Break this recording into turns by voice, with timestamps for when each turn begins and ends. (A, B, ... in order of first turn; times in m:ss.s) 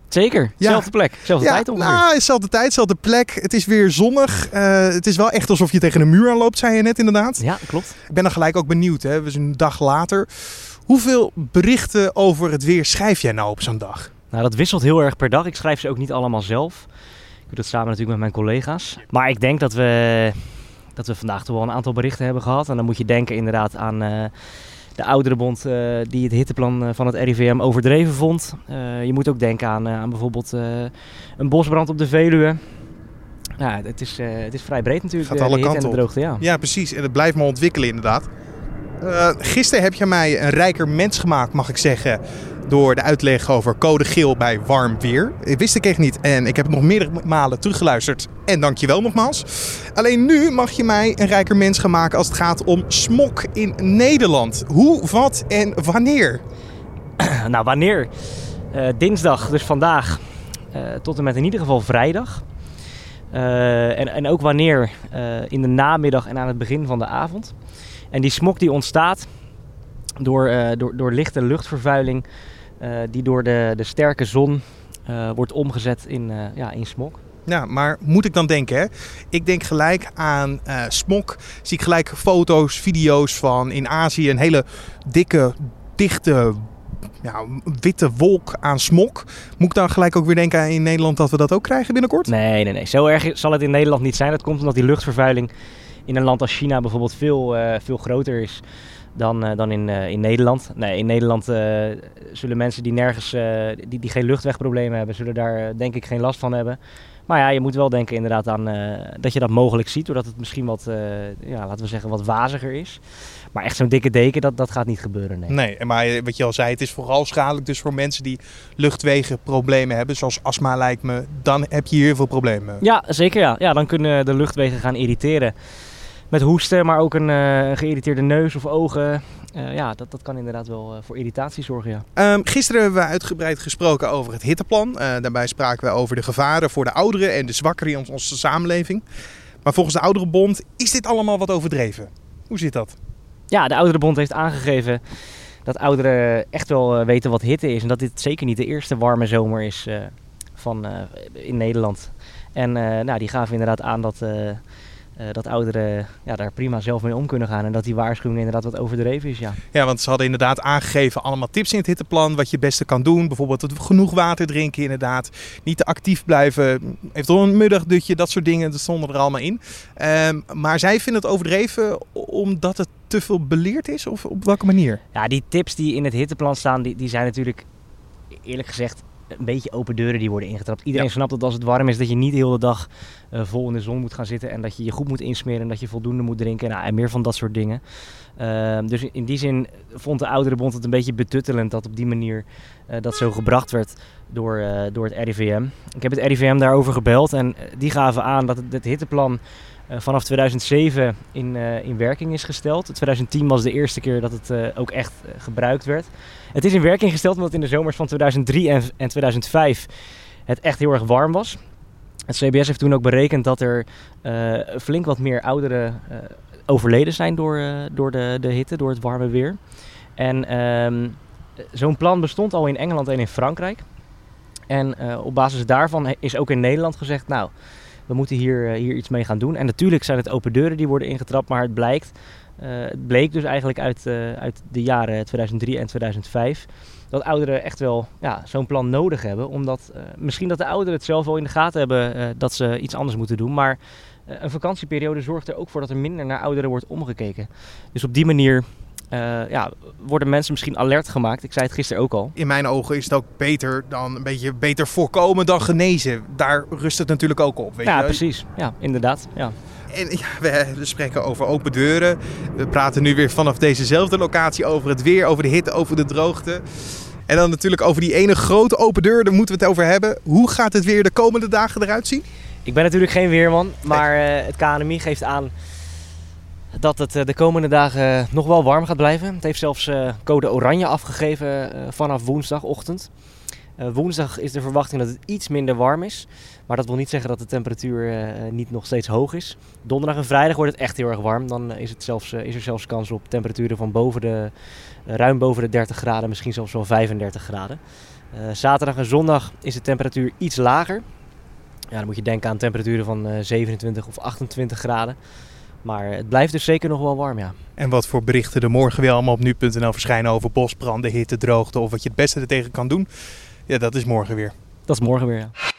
0:00.1-0:02.0 A
0:00.6-0:07.5 B
0:07.4-0:08.0 A
0:08.1-0:14.1 B
0:14.3-0:16.9 A
0:17.5-0:24.3 A
0:25.0-0:32.6 A
0:33.6-0:36.4 A
0:35.2-0:38.3 B
0:39.0-0:56.4 B
0:57.2-0:58.1 A
0:58.7-1:02.4 A
1:03.3-1:07.5 A
1:08.1-1:09.3 A
1:10.2-1:12.3 A
1:12.8-1:17.2 A
1:17.5-1:26.7 B
1:27.2-1:32.3 B
1:32.3-1:35.5 A
1:36.1-1:38.6 A
1:39.2-1:53.0 A
1:53.5-1:55.6 A
1:55.5-2:02.8 B
2:02.8-2:05.6 A
2:06.3-2:12.0 A
2:12.2-2:19.0 B
2:19.6-2:23.0 B
2:23.5-2:25.0 A
2:25.6-2:34.6 A
2:35.2-2:39.6 A
2:39.7-2:55.0 B
2:55.1-2:57.7 A
2:58.4-3:07.8 A
3:08.4-3:29.9 A
3:30.5-3:31.6 A
3:32.3-3:39.6 A
3:40.2-3:41.2 A
3:41.7-3:43.8 A
3:44.7-3:47.5 A
3:48.1-4:12.4 A
4:12.4-4:18.2 B
4:17.8-4:19.6 A
4:19.9-4:26.6 B
4:27.3-4:32.2 B
4:32.6-4:35.5 A
4:36.7-4:43.1 A
4:43.8-4:54.5 A
4:55.1-4:57.8 A
4:58.3-5:01.0 A
5:01.9-5:05.2 A
5:05.8-5:07.6 A
5:07.8-5:13.1 B
5:13.7-5:14.5 B
5:14.9-5:15.5 A